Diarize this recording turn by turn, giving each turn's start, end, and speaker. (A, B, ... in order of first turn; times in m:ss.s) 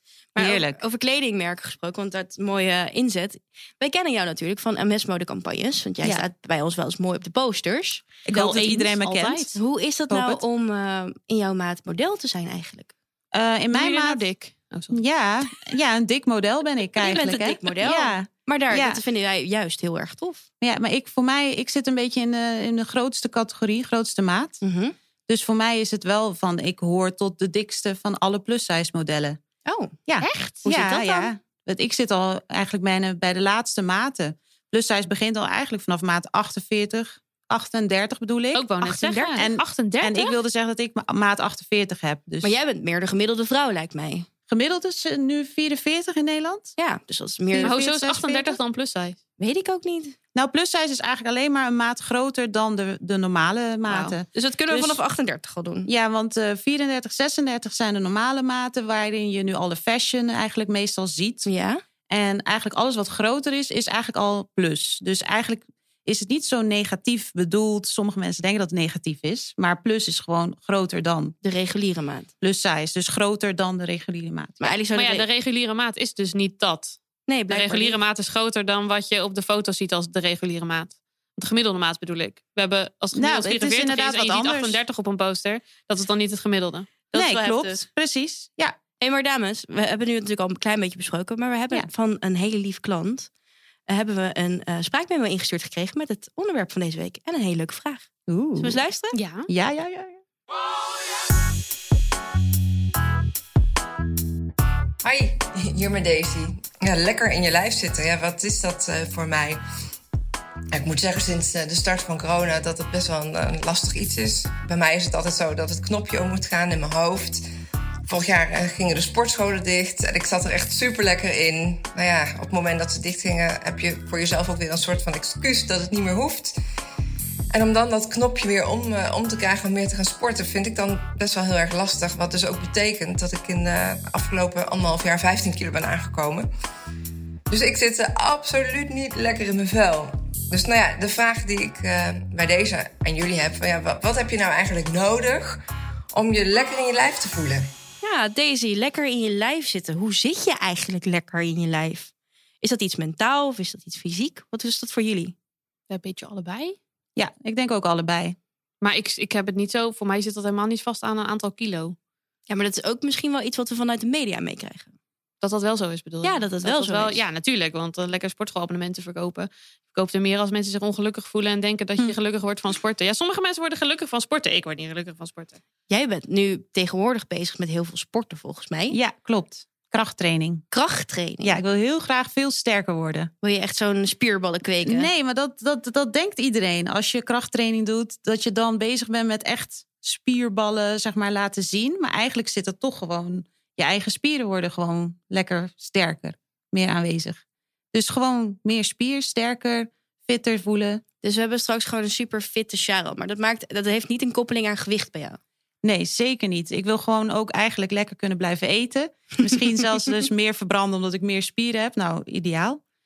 0:00.4-0:08.0 A
0:00.4-0:00.8 B
0:08.2-0:09.5 B
0:08.3-0:09.6 C
0:09.6-0:12.9 A
0:10.1-0:10.4 B
0:13.3-0:14.3 B
0:13.7-0:15.0 C
0:14.9-0:19.0 B
0:17.0-0:20.4 A
0:20.6-0:24.6 B
0:24.6-0:24.9 A
0:25.3-0:29.4 B
0:29.6-0:31.3 A
0:30.1-0:42.5 B
0:38.5-0:40.4 C
0:39.1-0:39.4 A
0:42.4-0:44.3 A
0:44.5-0:46.8 B
0:46.8-0:47.8 A
0:47.5-0:48.6 B
0:47.6-0:49.2 C
0:49.4-0:50.2 A
0:50.3-0:55.0 B
0:53.9-0:54.1 C
0:54.3-0:55.9 A
0:55.9-1:01.5 B
1:01.4-1:01.8 A
1:02.1-1:11.3 B
1:11.4-1:12.3 A
1:12.4-1:14.7 B
1:14.6-1:15.2 A
1:14.9-1:27.0 C
1:17.3-1:18.0 A
1:23.1-1:24.8 B
1:27.1-1:27.8 A
1:27.1-1:28.8 B
1:29.0-1:33.3 A
1:33.9-1:39.2 A
1:38.3-1:38.8 B
1:39.1-1:39.5 C
1:39.5-1:40.2 B
1:45.0-1:49.6 D
1:50.7-1:57.4 D
1:58.1-2:06.6 D
2:07.5-2:16.5 D
2:17.5-2:25.6 D
2:26.1-2:27.7 D
2:28.0-2:35.3 A
2:35.9-2:36.8 C
2:37.2-2:38.4 B
2:38.8-2:42.0 C
2:42.5-2:44.9 A
2:45.4-2:55.6 C
2:46.2-2:47.2 A
2:55.9-2:59.0 A
2:58.9-3:00.6 B
3:00.7-3:01.6 A
3:01.4-3:03.3 B
3:03.4-3:05.1 A
3:04.8-3:17.4 B
3:17.9-3:21.0 B
3:21.2-3:25.4 A
3:25.8-3:32.8 B